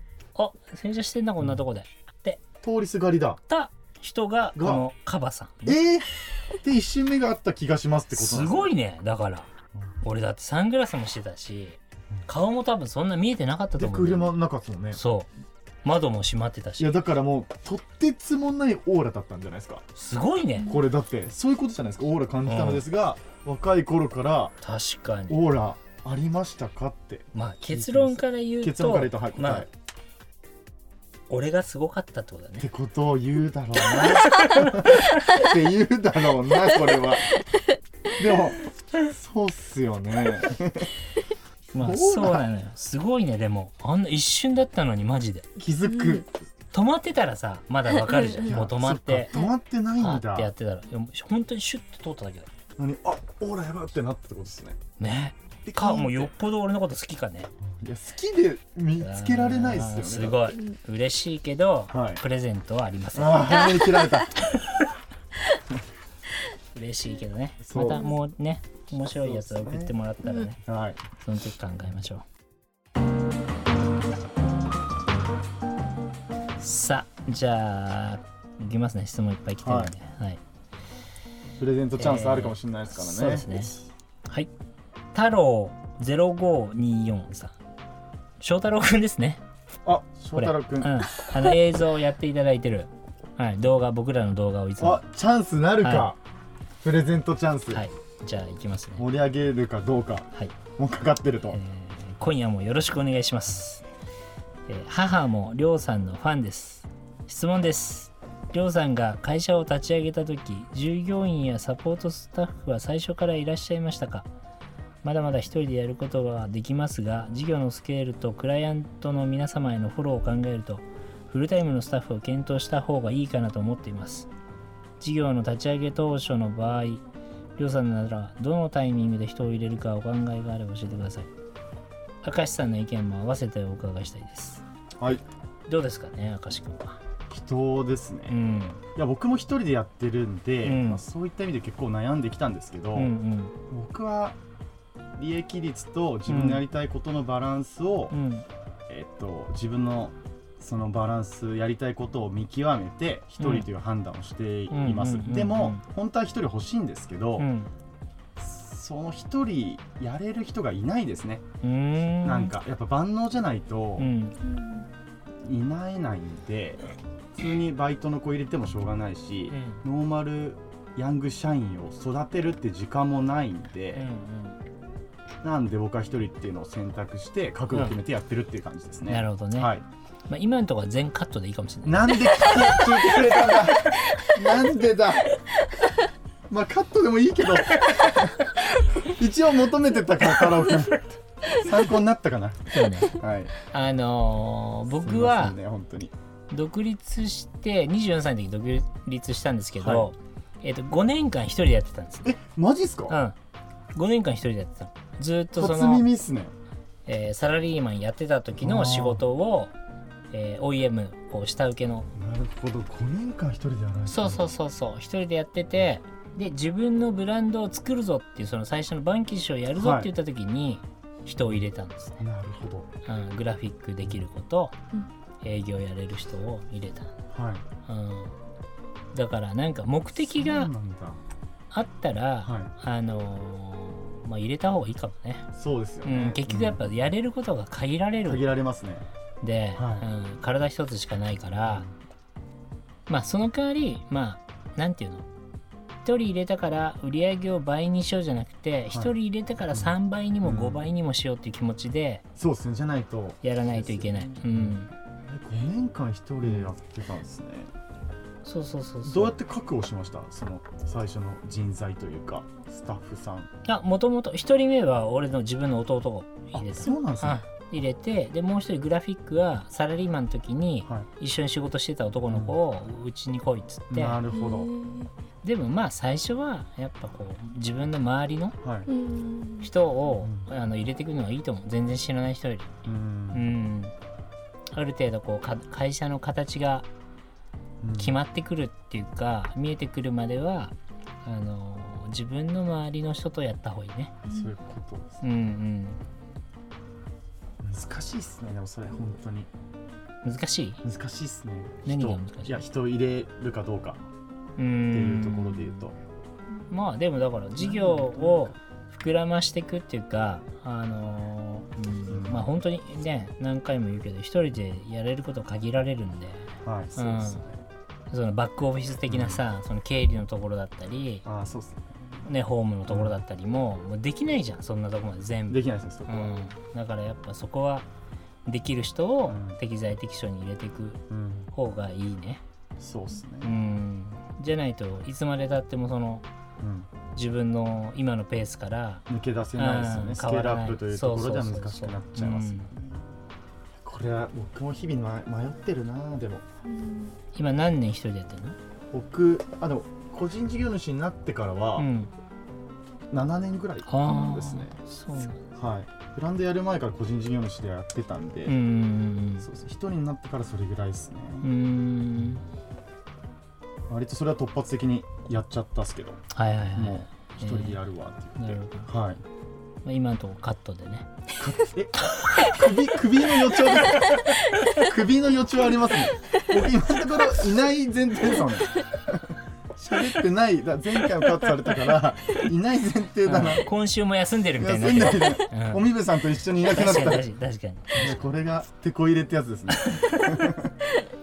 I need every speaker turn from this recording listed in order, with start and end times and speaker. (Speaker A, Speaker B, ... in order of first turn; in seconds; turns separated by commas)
Speaker A: 0.3-2.4, Speaker B: 2.6-3.4, Speaker A: 3.5-5.8, Speaker B: 4.5-4.8, Speaker B: 5.7-8.7, Speaker A: 8.1-9.5, Speaker A: 10.0-14.3, Speaker B: 13.8-15.0, Speaker A: 14.9-15.3, Speaker A: 15.8-16.9, Speaker B: 16.8-19.8, Speaker A: 19.9-20.8, Speaker B: 20.6-24.6, Speaker A: 22.4-22.8, Speaker A: 24.6-25.4, Speaker B: 25.3-29.7, Speaker A: 27.3-29.7, Speaker A: 31.3-32.7, Speaker B: 32.6-37.4, Speaker A: 34.0-35.4, Speaker B: 38.1-40.9, Speaker A: 41.7-45.5, Speaker B: 41.8-42.4, Speaker B: 45.5-46.3, Speaker C: 45.9-46.2, Speaker A: 46.7-49.3, Speaker C: 48.0-48.5, Speaker B: 48.4-50.5, Speaker A: 50.0-52.5, Speaker B: 52.8-54.8, Speaker A: 55.0-57.5, Speaker B: 55.6-56.3, Speaker B: 57.6-60.4, Speaker A: 59.0-63.7, Speaker B: 61.9-62.2, Speaker B: 63.1-64.3, Speaker C: 63.8-64.1, Speaker A: 64.5-64.8, Speaker A: 66.7-70.6, Speaker B: 67.6-68.1, Speaker B: 69.1-69.9, Speaker B: 70.6-71.0, Speaker A: 71.2-72.2, Speaker A: 76.6-80.4, Speaker B: 79.6-79.9, Speaker B: 81.6-83.6, Speaker A: 82.0-83.8, Speaker A: 85.1-87.5, Speaker A: 88.4-89.4, Speaker B: 89.8-91.0, Speaker A: 90.3-95.0, Speaker B: 94.8-96.2, Speaker A: 95.8-96.1, Speaker B: 96.8-97.8, Speaker A: 97.7-99.1, Speaker B: 99.0-101.6, Speaker A: 101.5-103.8, Speaker A: 104.7-114.3, Speaker A: 115.0-124.3, Speaker A: 125.0-127.0, Speaker A: 127.6-131.3, Speaker A: 132.2-134.6, Speaker A: 135.7-137.0, Speaker B: 137.3-138.4, Speaker A: 138.3-138.8, Speaker B: 138.9-143.1, Speaker A: 140.6-141.0, Speaker A: 142.9-143.5, Speaker B: 143.7-144.4, Speaker B: 145.2-148.1, Speaker A: 146.3-146.6, Speaker A: 148.1-148.4, Speaker B: 148.9-157.5, Speaker A: 153.4-153.7, Speaker A: 154.7-155.8, Speaker A: 157.4-157.7, Speaker B: 158.4-161.4, Speaker A: 161.6-162.5, Speaker B: 162.2-164.1, Speaker A: 164.0-164.4, Speaker C: 164.5-164.8, Speaker B: 165.4-166.8, Speaker B: 167.4-174.0, Speaker A: 169.5-169.8, Speaker A: 173.9-174.6, Speaker B: 175.4-179.8, Speaker A: 177.7-178.0, Speaker A: 179.1-179.7, Speaker A: 180.3-182.9, Speaker B: 181.8-185.3, Speaker B: 186.5-193.5, Speaker A: 192.7-195.6, Speaker B: 195.0-196.1, Speaker A: 196.5-202.4, Speaker B: 199.8-200.1, Speaker B: 202.2-203.2, Speaker A: 203.1-203.3, Speaker A: 203.9-206.1, Speaker B: 205.5-206.5, Speaker A: 207.1-209.7, Speaker B: 208.6-209.2, Speaker A: 210.3-212.1, Speaker B: 212.1-214.5, Speaker A: 214.1-222.2, Speaker B: 219.8-220.1, Speaker B: 222.2-222.9, Speaker A: 223.1-224.8, Speaker A: 225.4-227.1, Speaker B: 227.3-227.6, Speaker A: 227.8-228.3, Speaker A: 229.1-230.7, Speaker B: 230.3-231.2, Speaker A: 231.7-235.5, Speaker B: 232.4-232.7, Speaker B: 235.5-236.8, Speaker A: 236.0-238.4, Speaker B: 238.2-239.1, Speaker A: 239.4-241.8, Speaker B: 239.7-240.1, Speaker B: 241.7-241.9, Speaker A: 243.1-245.3, Speaker A: 246.0-252.2, Speaker B: 249.7-250.8, Speaker B: 252.3-254.7, Speaker A: 253.4-254.9, Speaker B: 255.3-257.7, Speaker A: 258.4-259.4, Speaker B: 259.0-263.5, Speaker A: 263.6-274.2, Speaker B: 266.5-267.4, Speaker B: 272.3-272.6, Speaker B: 273.9-274.7, Speaker C: 274.3-275.1, Speaker A: 275.4-278.6, Speaker B: 278.6-278.9, Speaker C: 278.9-279.7, Speaker A: 279.6-282.7, Speaker B: 280.2-280.5, Speaker B: 282.8-283.5, Speaker A: 283.3-283.9, Speaker A: 284.7-286.9, Speaker B: 287.8-288.2, Speaker A: 288.0-294.1, Speaker C: 294.2-294.5, Speaker B: 294.2-295.2, Speaker A: 295.2-296.0, Speaker B: 297.6-299.5, Speaker A: 300.2-300.8, Speaker B: 300.8-304.0, Speaker A: 301.8-302.6, Speaker A: 304.6-305.8, Speaker B: 304.9-305.9, Speaker A: 306.7-317.4, Speaker B: 307.6-308.5, Speaker B: 312.1-312.5, Speaker B: 316.6-317.6, Speaker A: 318.1-321.2, Speaker B: 319.1-319.4, Speaker B: 321.2-322.2, Speaker A: 322.2-327.9, Speaker B: 322.9-323.1, Speaker B: 325.5-326.3, Speaker A: 328.4-331.0, Speaker B: 329.3-329.6, Speaker B: 331.1-331.5, Speaker A: 331.5-332.4, Speaker B: 332.8-333.6, Speaker A: 333.4-336.2, Speaker B: 336.6-336.9, Speaker A: 337.1-339.1, Speaker B: 339.1-343.0, Speaker A: 339.6-342.7, Speaker B: 343.8-346.4, Speaker C: 346.6-347.1, Speaker A: 347.3-348.6, Speaker B: 348.9-351.9, Speaker A: 351.8-352.1, Speaker B: 353.1-354.8, Speaker A: 353.9-355.4, Speaker B: 355.5-358.6, Speaker A: 358.4-359.4, Speaker B: 359.4-361.5, Speaker A: 361.4-362.4, Speaker B: 363.9-366.2, Speaker A: 366.3-367.8, Speaker B: 366.8-369.2, Speaker A: 368.4-368.9, Speaker A: 369.8-371.1, Speaker B: 371.4-374.2, Speaker A: 372.2-372.5, Speaker B: 374.7-383.7, Speaker A: 383.2-385.9, Speaker B: 384.6-387.3, Speaker A: 386.6-388.2, Speaker B: 387.9-390.7, Speaker A: 389.7-390.5